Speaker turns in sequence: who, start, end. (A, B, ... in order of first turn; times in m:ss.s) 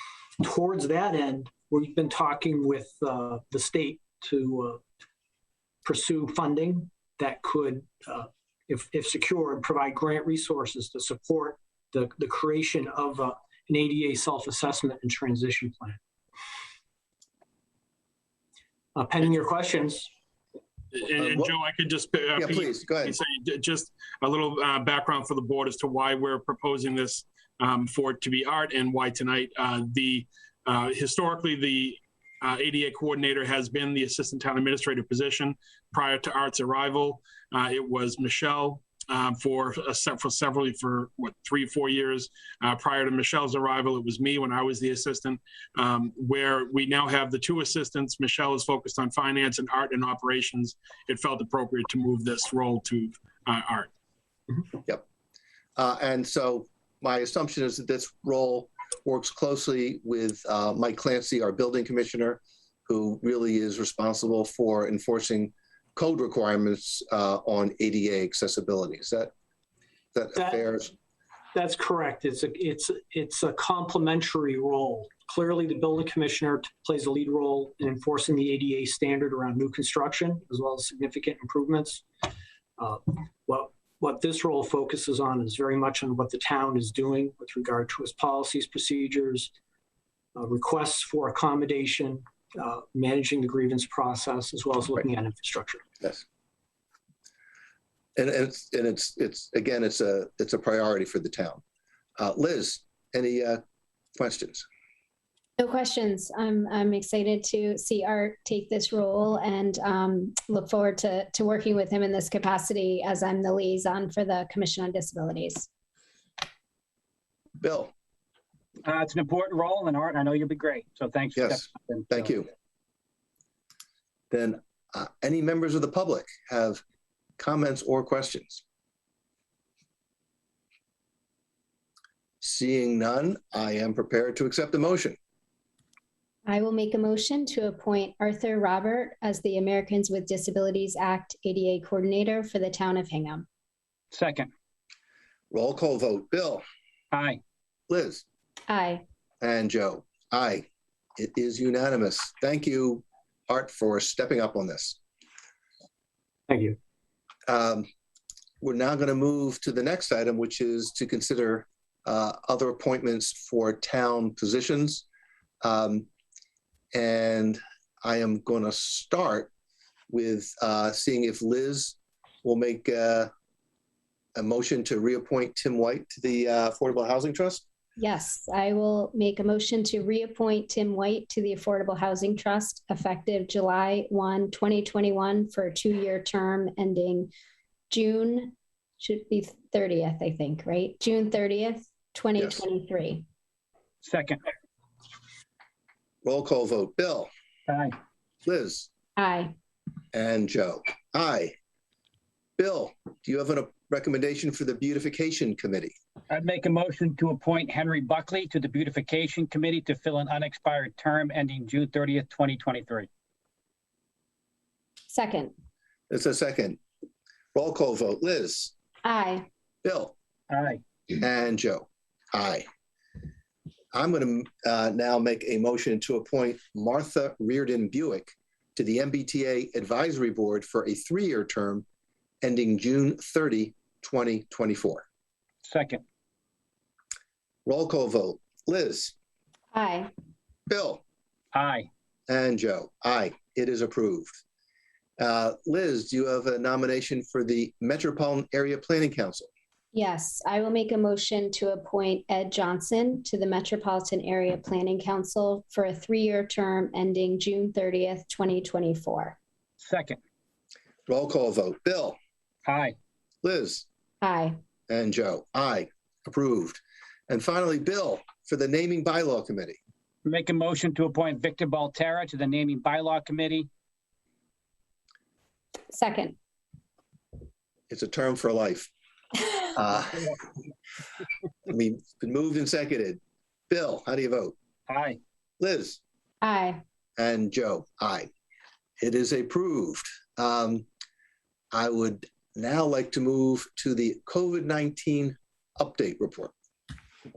0:00.4-0:04.8 A
0:05.8-0:16.0 A
0:19.0-0:20.1 A
0:20.9-0:53.9 B
0:21.2-0:21.5 C
0:22.4-0:23.2 C
0:55.8-1:09.3 C
1:10.1-1:10.9 C
1:10.4-1:10.7 A
1:11.5-1:22.2 A
1:22.8-1:29.5 A
1:30.4-1:35.8 A
1:38.2-1:41.6 C
1:42.2-1:43.6 C
1:44.2-1:44.6 C
1:45.6-1:55.7 D
1:57.6-1:57.9 C
1:58.8-2:02.4 E
2:01.4-2:02.5 C
2:04.3-2:06.8 C
2:07.4-2:08.6 C
2:12.4-2:15.2 C
2:16.5-2:23.5 D
2:24.1-2:24.5 E
2:25.5-2:26.6 C
2:27.1-2:27.4 E
2:27.9-2:28.2 C
2:28.7-2:29.0 D
2:29.4-2:30.7 C
2:31.2-2:35.0 C
2:36.5-2:36.8 A
2:37.5-2:37.9 C
2:38.6-2:45.0 C
2:45.6-2:46.1 C
2:46.9-2:49.5 C
2:50.1-2:53.3 C
2:54.4-2:57.6 C
2:58.0-3:07.3 D
3:07.9-3:13.3 D
3:12.4-3:12.6 C
3:14.0-3:14.4 E
3:16.2-3:17.3 C
3:17.7-3:18.0 E
3:18.4-3:18.9 C
3:19.2-3:19.6 D
3:20.1-3:21.5 C
3:22.6-3:25.9 C
3:26.3-3:33.1 E
3:35.1-3:35.5 D
3:36.1-3:36.8 C
3:37.5-3:38.7 C
3:39.0-3:39.5 D
3:39.8-3:40.2 C
3:40.5-3:40.8 E
3:41.2-3:42.7 C
3:43.9-3:51.8 C
3:52.4-3:55.0 C
3:55.6-3:56.0 E
3:57.6-3:59.2 C
3:59.7-4:00.1 D
4:00.7-4:01.0 C
4:01.5-4:01.9 E
4:02.3-4:04.4 C
4:05.2-4:09.5 C
4:09.9-4:19.4 D
4:19.8-4:20.2 E
4:21.1-4:22.2 C
4:22.7-4:23.0 E
4:23.4-4:23.9 C
4:24.2-4:24.6 D
4:24.9-4:29.8 C
4:30.2-4:33.7 E
4:35.9-4:36.4 D
4:37.9-4:38.9 C
4:39.8-4:40.4 C
4:41.7-4:44.6 C
4:44.9-4:45.2 E
4:45.6-4:46.0 C
4:46.4-4:46.8 D
4:47.2-4:48.3 C
4:49.0-4:50.9 C
4:51.7-4:56.5 C